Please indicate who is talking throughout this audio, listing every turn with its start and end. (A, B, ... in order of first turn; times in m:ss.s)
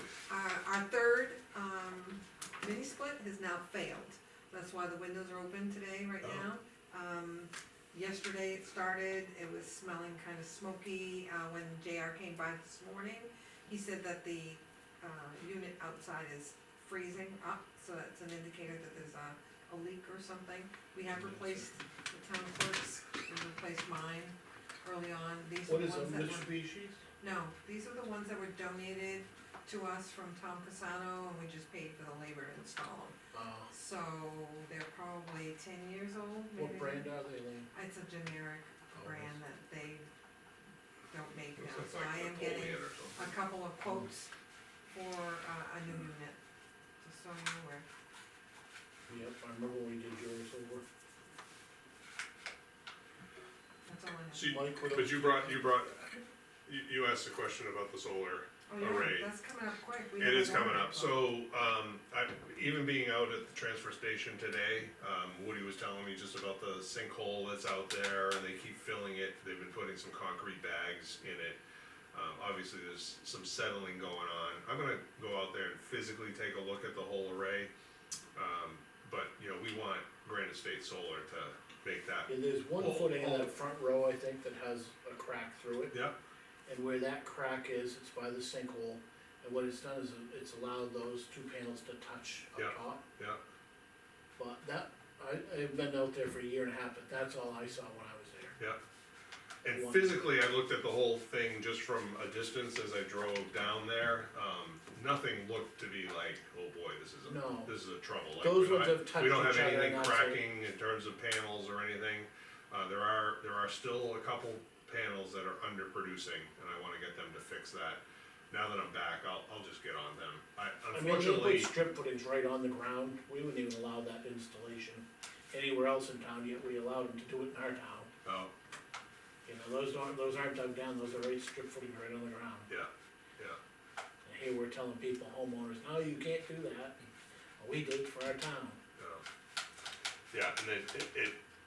0:00.3-0:26.5 A
0:06.2-0:06.5 B
0:21.2-0:21.6 C
0:25.7-0:27.0 C
0:27.2-0:33.2 A
0:33.3-0:33.7 C
0:33.7-0:37.2 A
0:36.6-0:37.7 C
0:37.7-0:40.1 A
0:39.0-0:39.4 C
0:41.1-0:44.3 A
0:41.6-0:43.3 B
0:44.9-0:46.4 A
0:47.0-0:47.8 A
0:49.1-0:50.8 C
0:53.9-0:54.6 A
0:54.3-0:56.1 B
0:54.4-0:55.7 C
0:56.7-0:59.3 B
0:58.7-1:01.3 A
1:00.2-1:11.6 B
1:12.1-1:17.7 B
1:18.4-1:23.5 B
1:22.3-1:26.0 C
1:25.9-1:26.2 B
1:26.7-1:33.0 C
1:32.6-1:33.4 B
1:34.4-1:38.6 C
1:39.6-2:01.7 B
1:39.7-1:40.2 C
1:47.3-1:47.7 C
1:48.4-1:50.4 C
2:00.9-2:08.1 C
2:08.2-2:08.5 B
2:09.4-2:12.7 C
2:12.7-2:13.6 B
2:14.2-2:17.0 C
2:17.6-2:18.8 C
2:19.0-2:19.2 B
2:20.3-2:21.4 B